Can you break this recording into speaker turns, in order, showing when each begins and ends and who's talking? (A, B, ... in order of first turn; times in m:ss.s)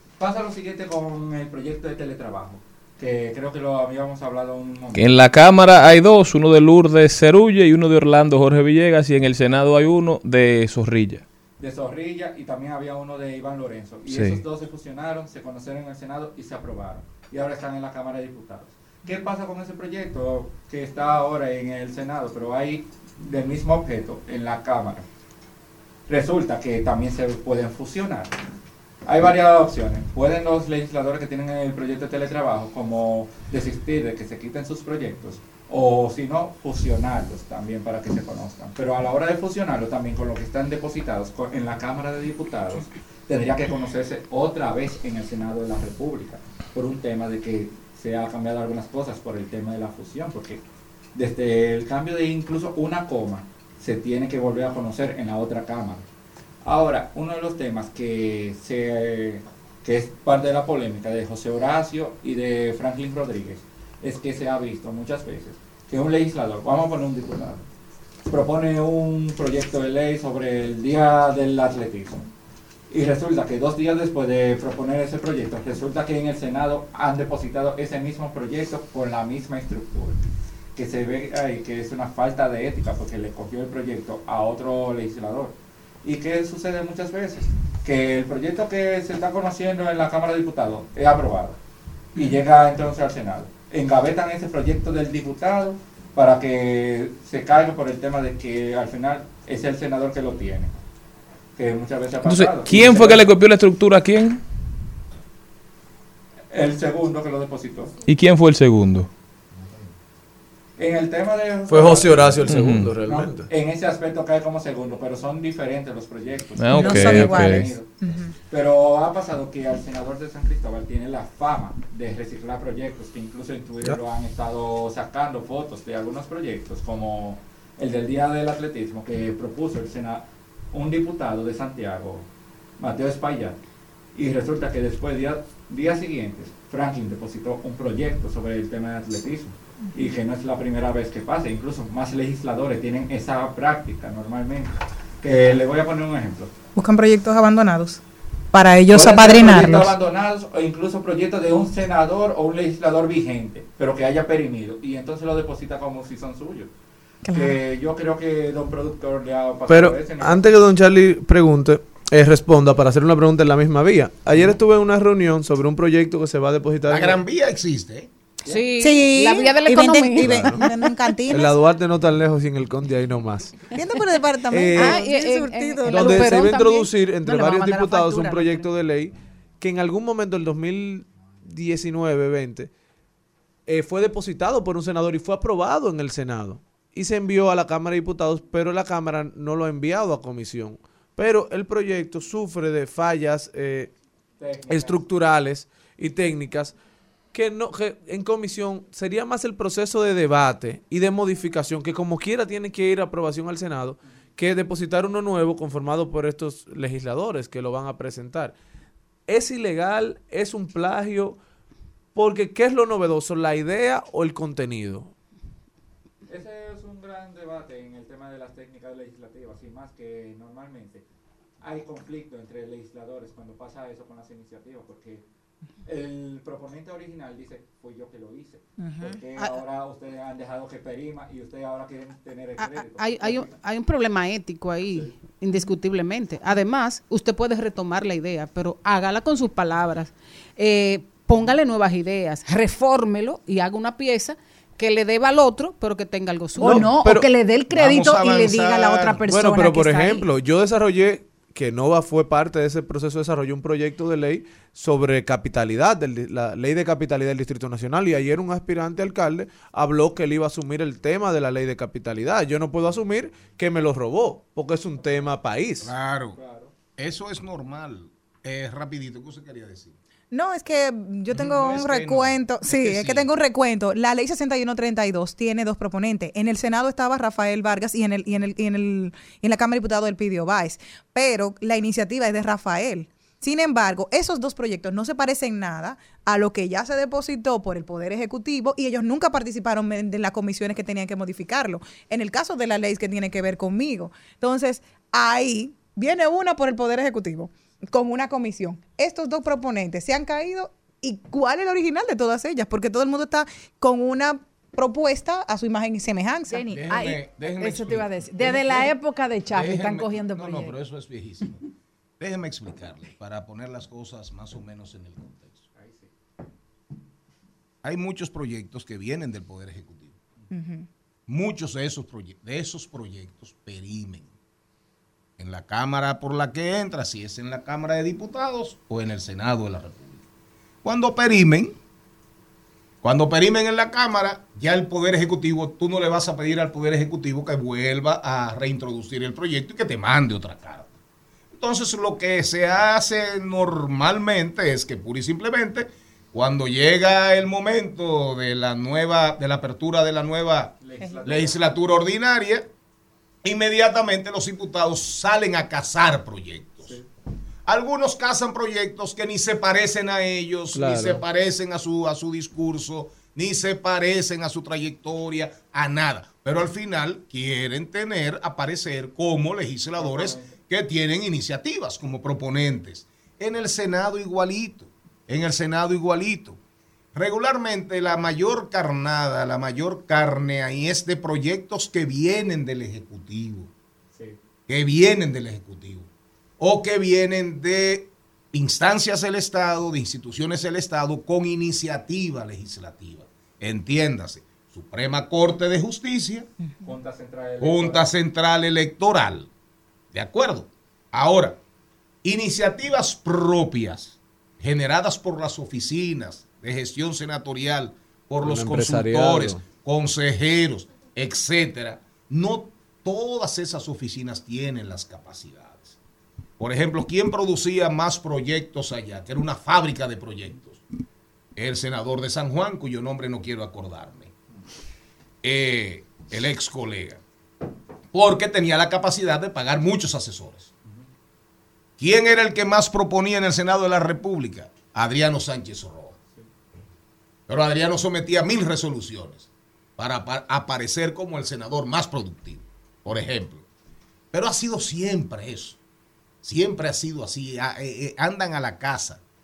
0:00.2-0:05.1 A
0:04.9-0:11.2 B
0:11.6-0:25.0 A
0:14.1-0:14.4 C
0:26.1-0:28.3 A
0:29.0-0:50.6 A
0:51.1-0:56.0 A
0:56.6-1:07.6 A
1:08.2-1:12.3 A
1:12.9-1:20.2 A
1:20.8-1:31.6 A
1:32.1-1:40.8 A
1:41.6-1:43.2 A
1:42.2-1:44.4 B
1:46.5-1:47.9 A
1:48.0-1:49.1 B
1:50.8-1:57.9 A
1:51.7-1:53.5 C
1:52.4-1:52.9 B
1:56.6-1:57.7 B
1:56.7-1:58.3 D
1:58.5-2:12.3 A
2:12.8-2:13.6 A
2:14.1-2:26.5 A
2:26.8-2:29.9 D
2:28.9-2:36.7 A
2:37.2-2:37.6 D
2:37.3-2:40.5 A
2:39.7-2:47.2 C
2:46.9-2:48.1 E
2:48.5-2:50.6 F
2:48.8-2:51.5 D
2:50.2-2:50.6 C
2:51.3-2:53.7 C
2:53.7-2:56.4 D
2:54.5-2:55.0 C
2:54.7-2:56.9 F
2:55.8-3:02.7 C
2:56.2-2:56.6 G
2:57.2-2:58.7 G
3:03.7-3:13.9 C
3:14.4-3:15.0 A
3:14.7-3:16.7 C
3:17.3-3:28.5 C
3:29.3-3:31.4 C
3:32.1-3:35.1 C
3:36.3-3:41.0 A
3:41.6-3:45.2 A
3:45.8-3:53.5 A
3:48.8-3:49.2 D
3:52.6-4:06.8 F
4:06.6-4:10.3 G
4:06.6-4:07.3 C
4:07.7-4:09.2 E
4:09.2-4:25.9 C
4:25.8-4:26.4 E
4:26.3-4:26.7 A
4:27.0-4:30.0 E
4:30.3-5:06.7 D
4:31.3-4:33.3 E
5:06.5-5:10.8 G
5:06.7-5:09.0 E
5:09.5-5:11.6 E
5:12.2-5:15.6 E
5:15.7-5:16.1 A
5:17.8-5:20.2 E
5:20.5-5:20.9 D
5:21.3-5:24.3 E
5:25.4-5:30.2 E
5:30.8-5:31.8 E
5:33.0-5:40.9 E
5:41.6-5:52.7 E
5:50.8-5:51.6 A
5:53.4-5:56.9 E
5:56.8-5:57.1 A
5:57.6-6:16.6 E
6:00.7-6:01.2 C
6:10.0-6:10.6 A
6:17.1-6:23.7 E
6:24.7-6:36.5 E
6:36.8-6:38.1 A
6:37.6-6:39.5 E
6:40.1-6:41.6 E
6:42.2-6:56.0 E
6:48.4-6:49.6 C
6:56.6-7:00.8 E
7:01.6-7:04.3 E
7:05.4-7:07.2 E
7:08.1-7:10.7 E
7:12.0-7:16.2 E
7:17.5-7:23.6 E
7:24.3-7:25.8 E
7:26.4-7:29.2 E